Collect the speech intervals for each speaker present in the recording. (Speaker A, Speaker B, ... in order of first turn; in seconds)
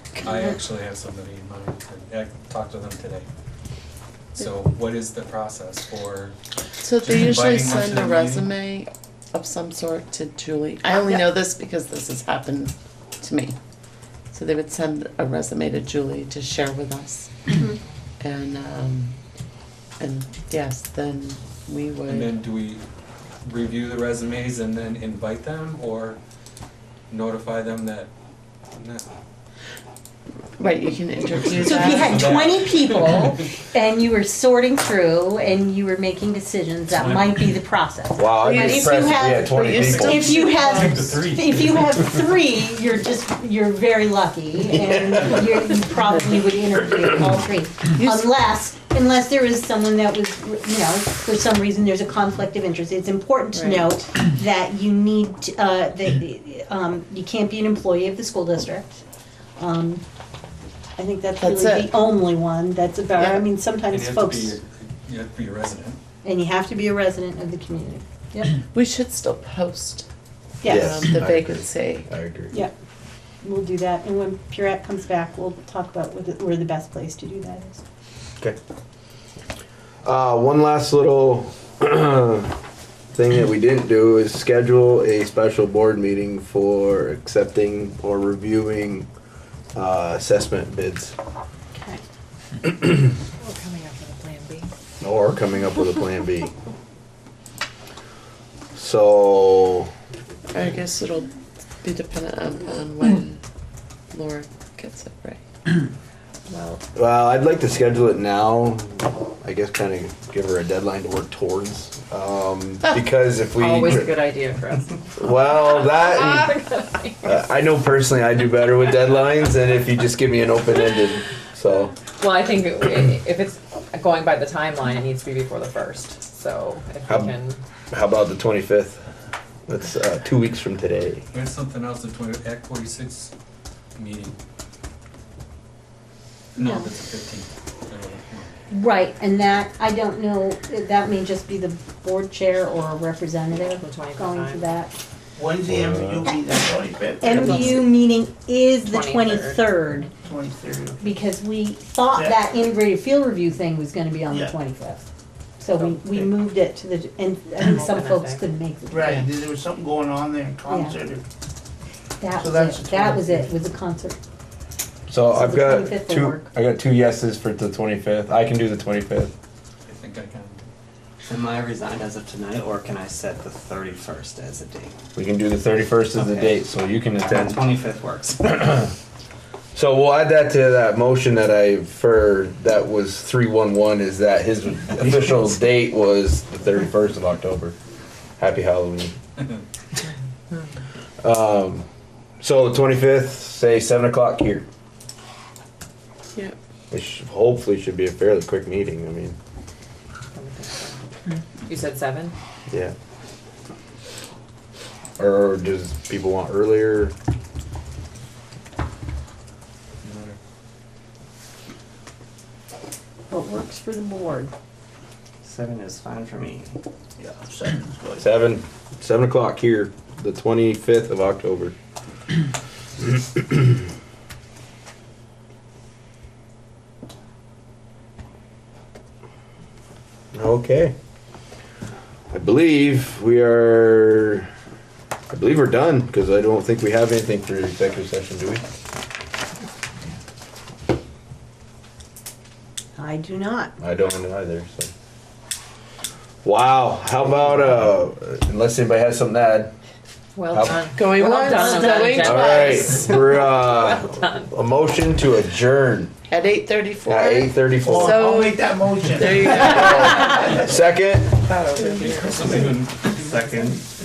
Speaker A: 0.2-3.3, 4.3-6.3, 7.0-8.5, 22.1-22.8, 23.4-26.2, 27.1-28.1, 28.7-29.1, 31.6-33.4, 36.9-37.5, 39.6-42.1, 63.9-66.0, 131.3-133.3, 134.0-134.4, 136.6-138.5, 169.9-170.7, 261.7-263.8
Speaker B: 6.8-13.6, 14.3-17.5, 18.2-19.2, 20.0-22.4, 30.6-32.4, 38.4-41.0, 48.0-48.3, 53.5-53.9, 61.4-62.0, 68.7-70.1, 70.7-72.1, 100.5-103.4, 104.1-105.4, 250.9-253.1, 256.3-260.6, 261.5-262.5
Speaker C: 17.5-17.8, 31.5-59.0, 59.6-60.0, 61.0-64.6, 66.2-68.5, 70.6-71.0, 73.4-77.8, 91.7-92.0, 136.6-136.9, 138.7-144.9, 147.2-150.1, 151.0-155.0, 155.6-159.3, 160.7-161.0, 162.2-164.2, 165.3-166.4, 213.3-214.5, 243.0-243.7
Speaker D: 38.2-40.3, 70.6-72.6, 80.0-82.5, 83.1-89.1, 89.8-91.2, 95.0-96.5, 98.8-99.9, 107.0-114.1, 115.2-116.6, 117.2-122.0, 127.1-127.3, 127.9-129.0, 129.7-131.2, 145.7-146.2, 165.1-169.3, 175.2-177.7, 179.7-187.8, 188.4-189.1, 191.2-191.9, 192.4-194.7, 196.9-199.4, 205.2-207.2, 218.2-221.7, 230.3-230.9, 232.3-234.5, 235.3-238.6, 243.8-244.9, 246.4-249.7, 250.5-250.8, 252.2-256.1, 257.1-258.2, 259.6-261.4
Speaker E: 93.4-94.7, 106.5-106.8, 113.5-117.5, 122.1-127.6, 143.5-144.8, 147.3-147.8, 148.8-149.7, 157.6-158.5, 200.3-202.3, 250.4-254.5
Speaker F: 145.4-147.9, 150.0-151.2, 152.1-152.4, 154.3-154.6, 158.9-161.2, 162.3-163.5, 217.2-218.2, 257.8-260.2
Speaker G: 171.2-175.0, 176.2-176.6, 177.2-178.8, 215.4-216.8, 263.1-263.8